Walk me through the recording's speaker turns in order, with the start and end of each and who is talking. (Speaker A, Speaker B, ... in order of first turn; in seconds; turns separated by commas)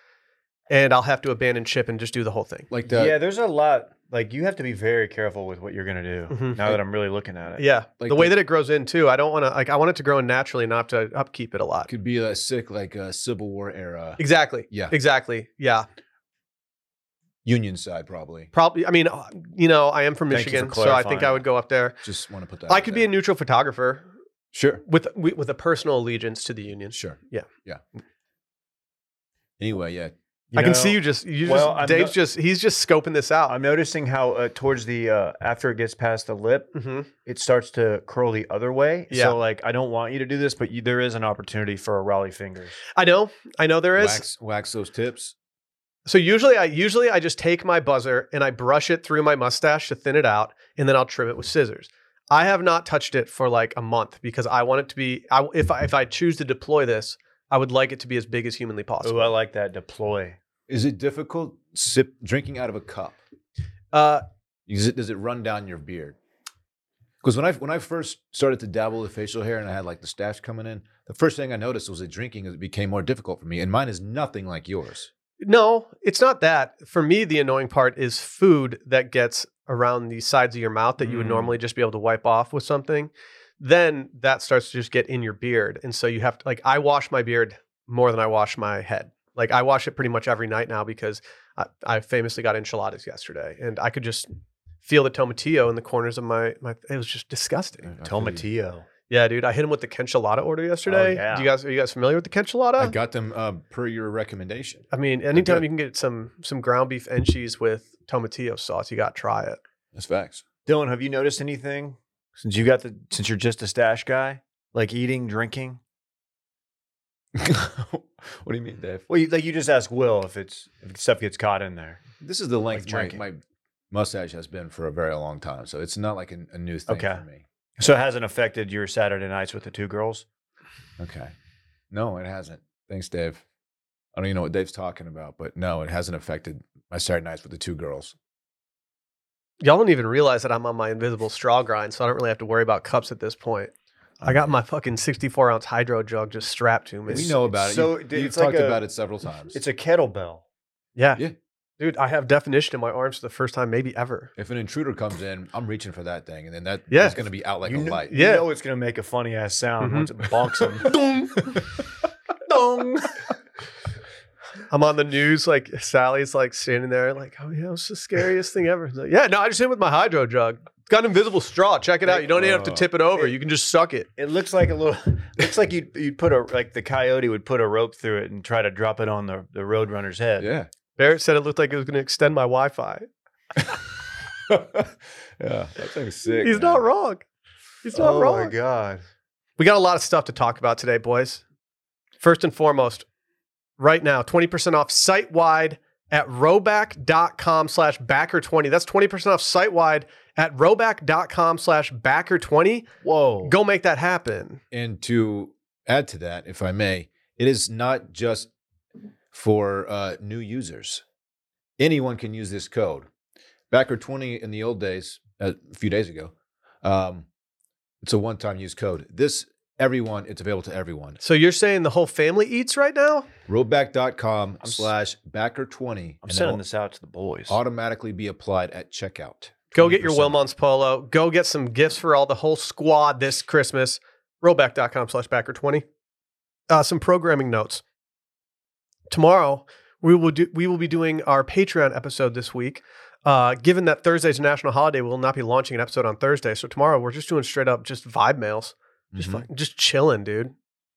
Speaker A: 0.7-2.7, Speaker B: 2.7-3.2, Speaker C: 2.9-7.7, Speaker A: 6.3-6.7, Speaker A: 7.6-11.9, Speaker B: 8.0-8.3, Speaker B: 11.9-14.9, Speaker A: 14.2-15.9, Speaker B: 17.4-18.5, Speaker A: 18.5-22.0, Speaker C: 20.3-21.4, Speaker B: 22.0-23.1, Speaker A: 22.7-24.1, Speaker B: 24.5-24.8, Speaker A: 24.8-27.5, Speaker B: 26.9-27.8, Speaker B: 29.6-30.1, Speaker C: 30.5-32.2, Speaker A: 30.6-33.5, Speaker C: 33.5-42.8, Speaker A: 36.8-37.1, Speaker A: 39.1-39.4, Speaker A: 43.0-44.3, Speaker B: 44.0-45.3, Speaker A: 46.1-59.4, Speaker C: 59.0-60.4, Speaker B: 60.7-63.2, Speaker A: 63.9-64.2, Speaker B: 64.7-66.2, Speaker B: 67.2-75.1, Speaker A: 75.4-94.3, Speaker B: 81.0-81.5, Speaker A: 94.8-97.9, Speaker B: 97.8-98.5, Speaker C: 98.0-98.9, Speaker A: 99.1-103.0, Speaker C: 100.9-101.5, Speaker B: 102.8-105.7, Speaker A: 104.9-109.6, Speaker B: 109.9-110.4, Speaker C: 110.7-115.8, Speaker B: 117.3-119.0, Speaker C: 119.1-122.0, Speaker B: 122.2-127.4, Speaker C: 122.7-123.2, Speaker C: 126.9-127.2, Speaker C: 127.8-130.2, Speaker B: 131.0-131.3, Speaker B: 131.9-133.4, Speaker B: 134.2-138.2, Speaker A: 139.6-143.7, Speaker B: 144.2-144.5, Speaker A: 144.2-147.4, Speaker B: 147.1-149.6, Speaker C: 147.1-148.8, Speaker C: 149.5-150.4, Speaker A: 151.0-151.2, Speaker A: 151.8-154.3, Speaker B: 154.4-158.1, Speaker A: 156.9-157.2, Speaker C: 157.6-161.0, Speaker A: 158.1-158.4, Speaker A: 159.8-160.1, Speaker A: 160.9-161.6, Speaker C: 162.5-163.3, Speaker A: 164.7-174.1, Speaker B: 172.2-172.9, Speaker C: 174.2-180.5, Speaker B: 180.4-180.7, Speaker A: 181.0-183.1, Speaker B: 184.4-186.8, Speaker A: 186.4-187.2, Speaker A: 187.8-188.5, Speaker C: 187.9-189.0, Speaker A: 189.6-191.4, Speaker A: 192.2-193.1, Speaker A: 193.8-202.9, Speaker C: 203.0-203.6, Speaker A: 203.4-204.6, Speaker B: 204.7-208.5, Speaker B: 209.3-211.0, Speaker B: 211.8-213.1, Speaker B: 213.7-217.3, Speaker B: 218.0-221.2, Speaker A: 221.2-223.3, Speaker B: 223.5-226.6, Speaker C: 224.6-224.9, Speaker C: 226.2-227.6, Speaker B: 227.5-230.4, Speaker A: 229.7-235.9, Speaker A: 236.7-237.8, Speaker A: 239.1-250.6, Speaker B: 249.1-249.5